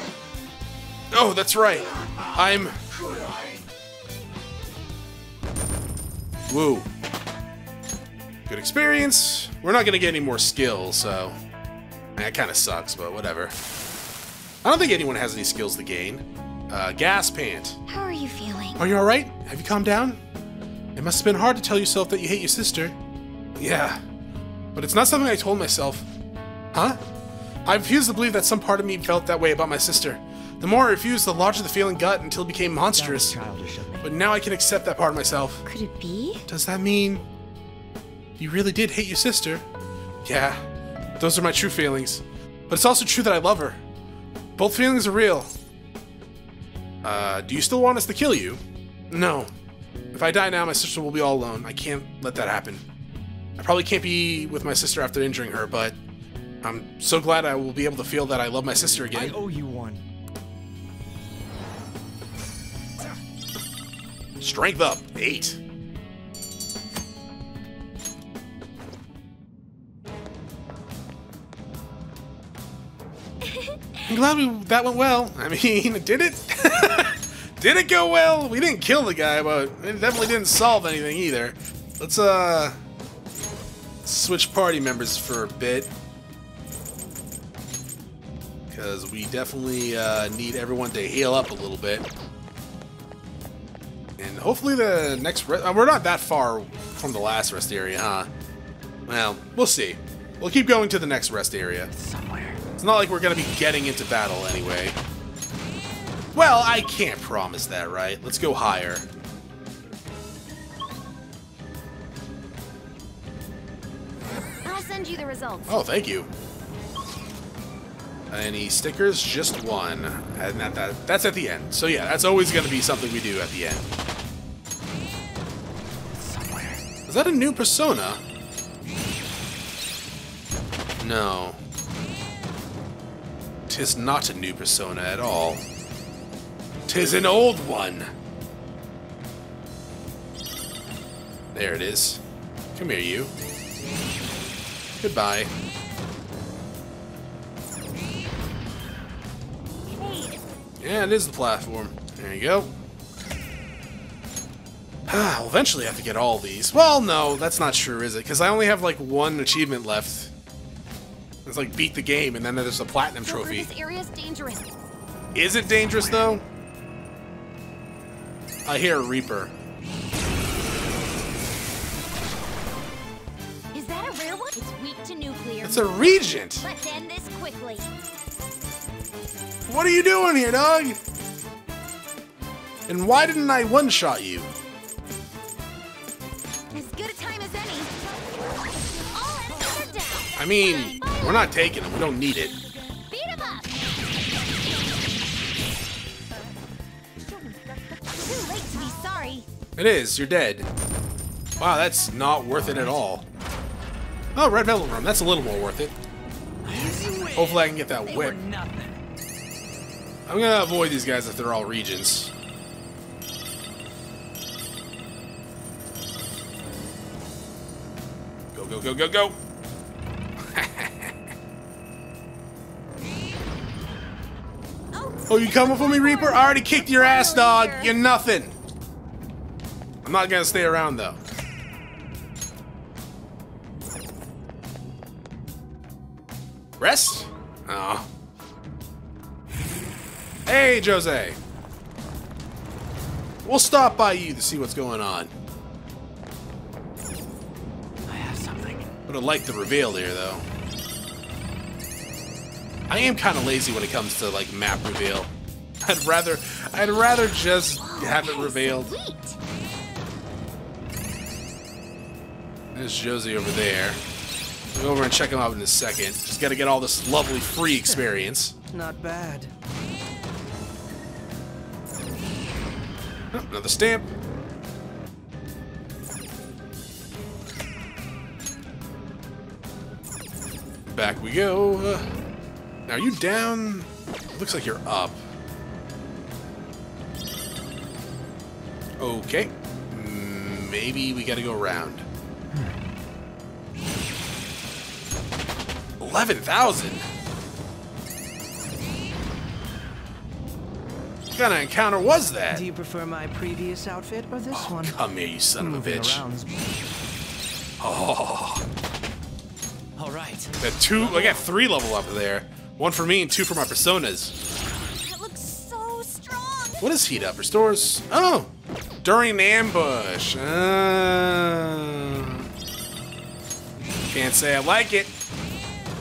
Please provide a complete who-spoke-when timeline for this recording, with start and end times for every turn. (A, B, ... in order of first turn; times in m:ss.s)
0:01.1-0:02.8 A
0:06.5-0:06.9 A
0:08.5-0:11.4 A
0:12.2-0:13.5 A
0:14.6-0:17.8 A
0:17.9-0:18.8 B
0:18.8-0:20.2 A
0:21.0-0:23.0 A
0:23.6-0:24.0 A
0:24.8-0:26.1 A
0:26.7-0:27.0 A
0:27.7-0:33.4 A
0:32.9-0:34.2 C
0:34.0-0:35.6 A
0:35.7-0:36.4 B
0:36.5-0:37.2 A
0:38.4-0:39.6 A
0:40.2-0:40.6 A
0:41.2-0:43.8 A
0:44.6-0:45.5 A
0:47.0-0:49.5 A
0:50.1-0:52.9 A
0:53.6-0:56.0 A
0:56.6-0:59.4 A
0:59.1-1:00.0 C
1:04.4-1:05.6 A
1:13.4-1:14.1 B
1:14.1-1:22.8 A
1:24.0-1:25.9 A
1:28.7-1:32.1 A
1:34.2-1:38.3 A
1:39.1-1:41.9 A
1:41.9-1:42.6 C
1:42.8-1:45.0 A
1:46.4-1:49.1 A
1:54.6-1:55.8 B
1:55.7-1:56.3 A
1:58.3-2:03.9 A
2:06.2-2:06.8 C
2:07.1-2:08.2 A
2:11.0-2:11.6 A
2:13.7-2:15.6 A
2:16.9-2:18.1 A
2:21.5-2:22.2 A
2:22.7-2:23.3 A
2:25.0-2:25.5 A
2:29.9-2:30.4 B
2:30.8-2:32.7 A
2:35.1-2:40.3 A
2:41.5-2:43.7 A
2:43.2-2:44.7 B
2:45.4-2:46.4 A
2:48.7-2:49.5 A
2:53.7-2:57.9 B
2:55.6-2:56.7 A
2:59.7-3:01.0 A
3:02.9-3:04.5 A
3:06.7-3:11.6 B
3:10.4-3:12.6 A
3:13.1-3:13.8 B
3:18.1-3:19.5 B
3:19.8-3:20.7 A
3:21.6-3:23.2 A
3:22.6-3:23.0 C
3:24.4-3:26.0 A
3:26.6-3:29.0 C
3:27.4-3:28.4 A
3:30.3-3:32.3 A
3:38.5-3:39.4 A
3:40.5-3:41.1 A
3:44.9-3:48.0 B
3:45.3-3:48.6 A
3:50.0-3:51.2 A
3:56.8-3:58.1 A
4:00.5-4:01.4 A
4:03.4-4:05.3 A
4:08.1-4:08.9 C
4:09.1-4:10.4 A
4:12.9-4:15.3 A
4:15.8-4:19.0 A
4:17.8-4:19.4 B
4:22.7-4:24.0 A
4:24.8-4:28.6 A
4:27.8-4:28.1 C
4:28.7-4:29.5 C
4:33.3-4:34.1 A
4:40.9-4:42.1 A
4:42.9-4:45.2 A
4:49.0-4:52.0 A
4:56.0-4:57.0 A
5:01.3-5:02.6 A
5:02.5-5:05.0 C
5:04.5-5:06.2 A
5:05.6-5:06.6 C
5:07.8-5:08.6 A
5:10.0-5:11.4 C
5:10.6-5:14.3 A
5:15.0-5:16.9 B
5:16.8-5:18.5 A
5:19.0-5:22.5 A
5:24.1-5:25.1 A